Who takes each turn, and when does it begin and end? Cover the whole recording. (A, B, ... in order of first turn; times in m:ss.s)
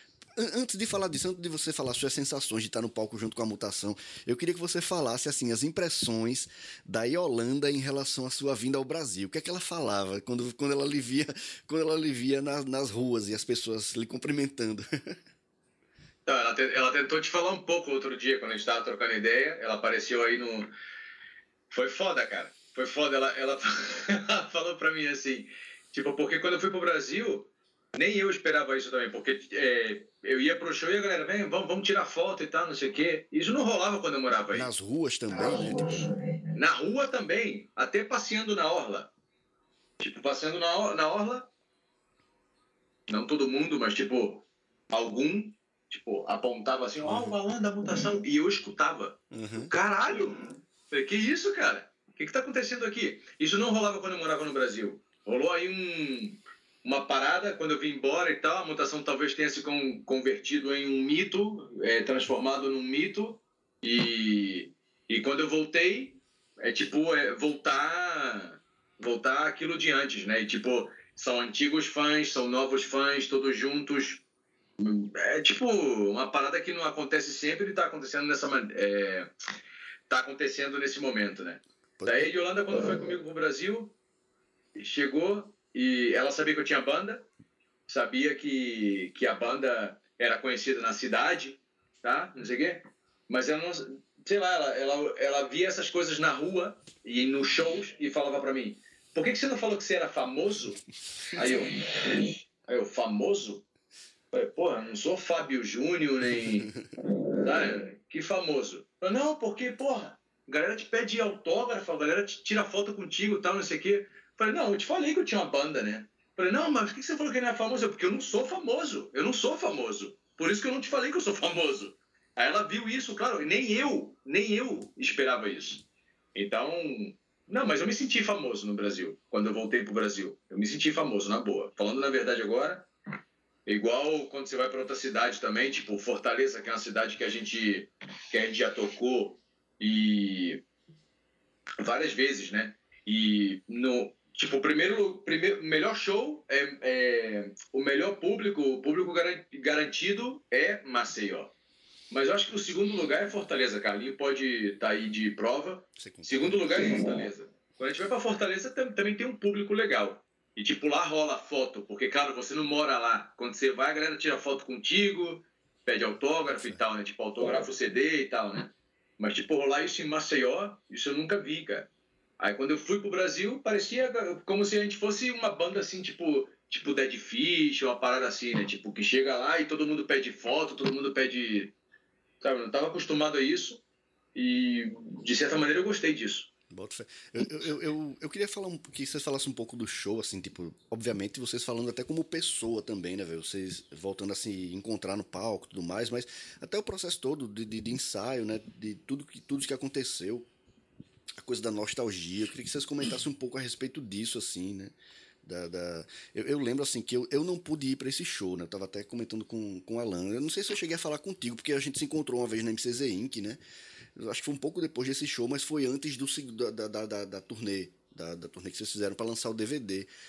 0:00.4-0:15.2 A
0:16.2-0:20.7 B
0:21.7-0:34.7 B
0:34.5-0:36.1 A
0:35.4-0:39.1 B
0:40.0-0:41.5 B
0:43.1-1:14.2 B
0:47.0-0:47.4 A
0:49.3-0:49.7 A
1:14.8-1:19.3 B
1:20.1-1:24.0 B
1:22.0-1:22.3 A
1:24.8-1:27.3 B
1:27.9-1:40.8 B
1:41.3-1:43.6 B
1:44.3-2:12.9 B
2:13.7-2:20.6 B
2:21.8-2:31.5 B
2:32.1-3:01.7 B
2:36.0-2:36.9 A
3:02.4-3:03.8 B
3:04.4-3:06.5 B
3:06.7-3:20.5 A
3:21.4-3:33.6 A
3:34.2-3:40.1 A